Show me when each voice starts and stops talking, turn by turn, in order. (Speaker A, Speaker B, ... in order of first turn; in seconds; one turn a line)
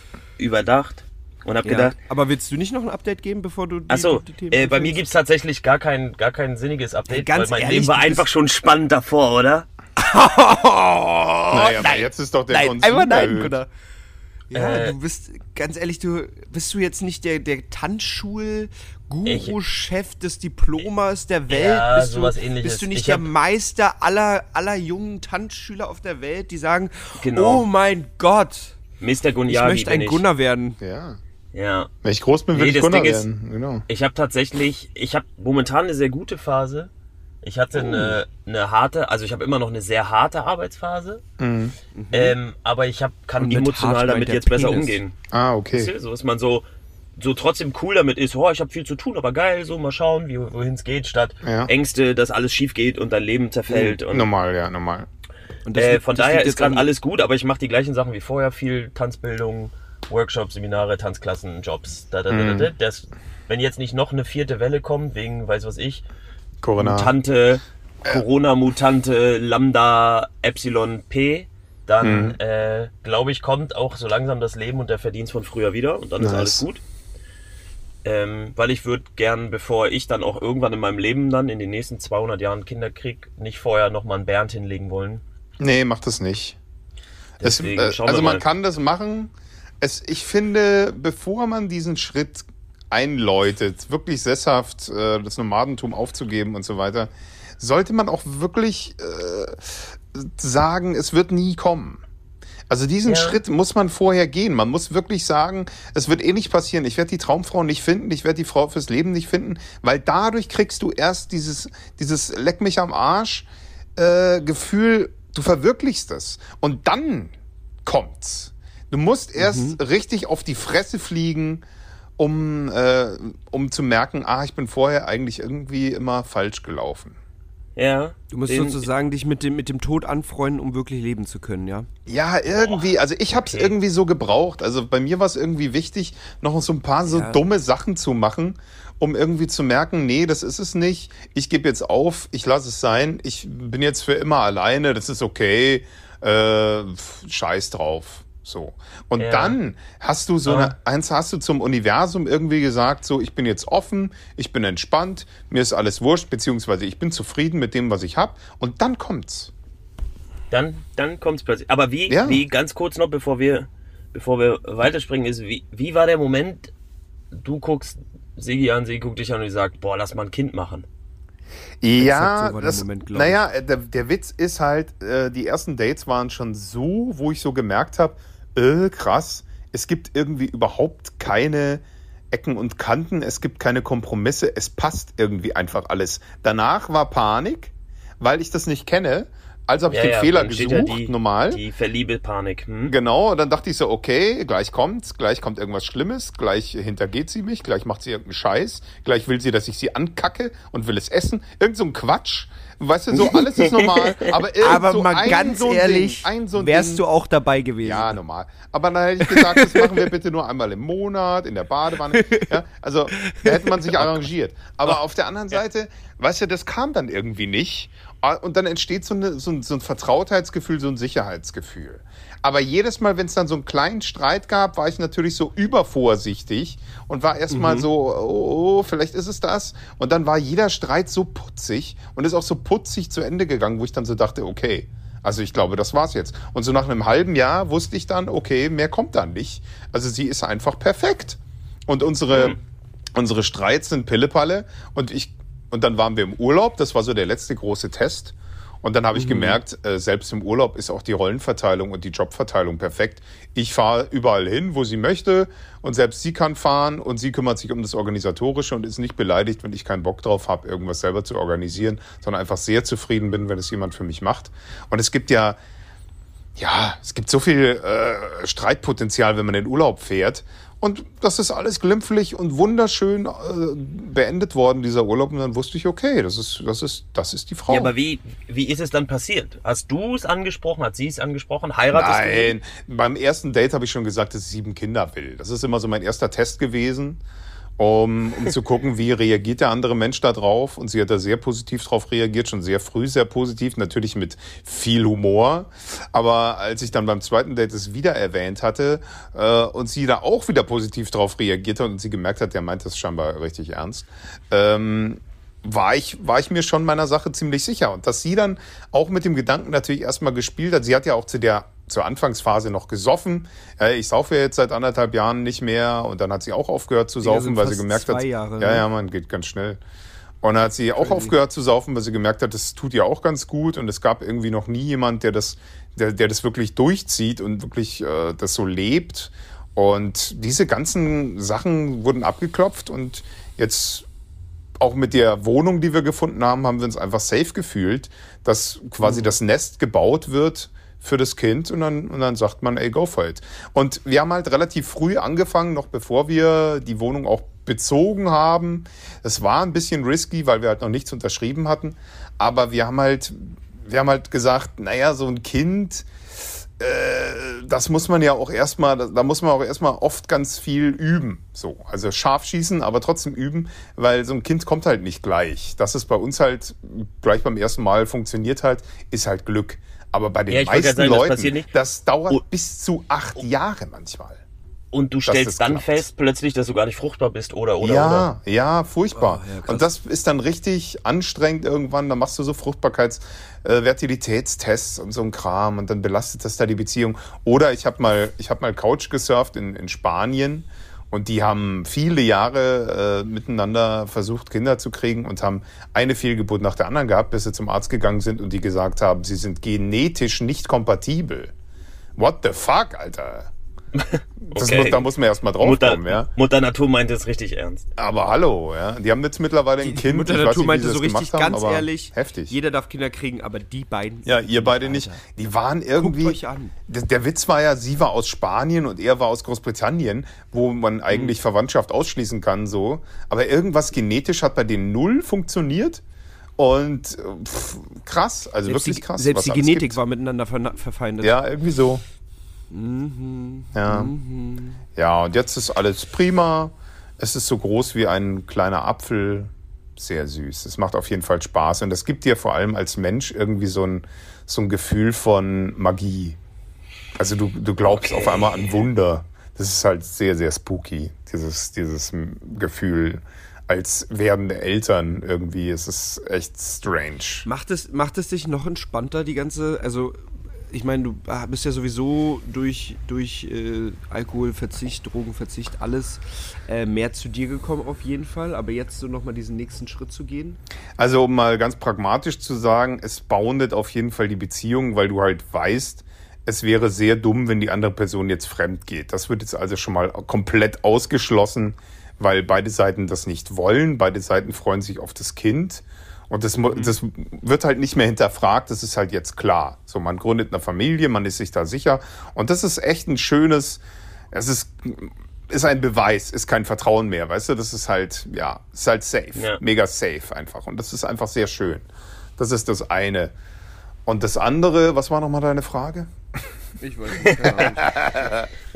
Speaker A: 0.4-1.9
Speaker B: 1.6-5.0
Speaker A: 3.9-9.7
Speaker B: 7.1-8.3
Speaker B: 10.0-13.7
Speaker C: 11.5-13.6
Speaker B: 14.5-28.8
Speaker A: 14.5-14.9
Speaker A: 19.3-19.6
Speaker A: 21.5-23.3
Speaker A: 27.2-27.7
Speaker A: 29.0-30.2
Speaker B: 29.5-30.8
Speaker C: 30.8-31.2
Speaker A: 31.5-31.9
Speaker C: 32.0-33.8
Speaker A: 32.5-33.3
Speaker A: 33.9-36.9
Speaker A: 37.4-41.2
Speaker B: 37.8-38.2
Speaker C: 41.4-41.8
Speaker B: 41.9-42.4
Speaker A: 42.1-45.1
Speaker B: 43.4-45.0
Speaker C: 45.3-45.9
Speaker A: 45.7-46.7
Speaker A: 47.2-54.3
Speaker C: 51.4-51.7
Speaker C: 54.1-55.1
Speaker B: 55.7-56.9
Speaker A: 55.8-66.0
Speaker C: 62.3-62.7
Speaker C: 66.6-67.1
Speaker A: 66.8-76.8
Speaker C: 72.0-72.4
Speaker C: 76.2-76.6
Speaker A: 78.0-85.2
Speaker C: 85.6-86.6
Speaker A: 87.4-88.5
Speaker C: 87.4-102.0
Speaker C: 102.7-117.3
Speaker A: 103.1-103.4
Speaker C: 117.8-121.6
Speaker B: 119.4-119.8
Speaker C: 122.2-127.2
Speaker A: 127.8-128.9
Speaker B: 128.3-131.9
Speaker C: 132.1-159.5
Speaker A: 132.5-132.9
Speaker A: 133.4-133.7
Speaker B: 137.1-137.4
Speaker A: 149.2-149.6
Speaker A: 150.5-150.7
Speaker A: 160.5-166.7
Speaker C: 162.1-162.4
Speaker A: 167.3-170.9
Speaker C: 171.8-191.6
Speaker B: 172.0-173.4
Speaker A: 189.9-192.9
Speaker C: 192.9-207.0
Speaker A: 203.3-204.3
Speaker B: 204.6-208.2
Speaker C: 207.8-242.6
Speaker B: 209.2-210.1
Speaker B: 212.1-212.5
Speaker B: 213.1-214.1
Speaker B: 227.5-227.9
Speaker C: 243.2-265.6
Speaker B: 249.1-249.6
Speaker C: 266.6-277.9
Speaker A: 277.7-282.6
Speaker C: 281.9-287.2
Speaker C: 287.8-319.8
Speaker B: 317.2-318.9
Speaker C: 320.4-334.1
Speaker B: 321.0-321.4
Speaker C: 334.8-374.4
Speaker B: 339.0-339.3
Speaker A: 370.5-371.7
Speaker A: 374.9-378.3
Speaker C: 375.3-376.1
Speaker C: 377.8-401.5
Speaker B: 379.1-379.9
Speaker C: 402.2-403.5
Speaker A: 403.9-405.1
Speaker C: 404.5-406.3
Speaker A: 405.6-407.9
Speaker C: 408.0-412.5
Speaker B: 409.8-415.2
Speaker C: 414.2-426.0
Speaker B: 416.0-416.8
Speaker C: 426.6-430.0
Speaker B: 428.6-431.4
Speaker C: 431.2-432.0
Speaker B: 432.7-434.8
Speaker C: 433.7-434.1
Speaker C: 434.9-446.4
Speaker C: 447.2-457.5
Speaker A: 447.9-448.7
Speaker B: 457.4-470.6
Speaker C: 471.0-493.8
Speaker C: 494.3-501.9
Speaker A: 499.4-499.6
Speaker C: 502.4-503.3
Speaker C: 504.1-506.1
Speaker B: 506.8-508.3
Speaker A: 507.2-507.5
Speaker C: 507.8-508.4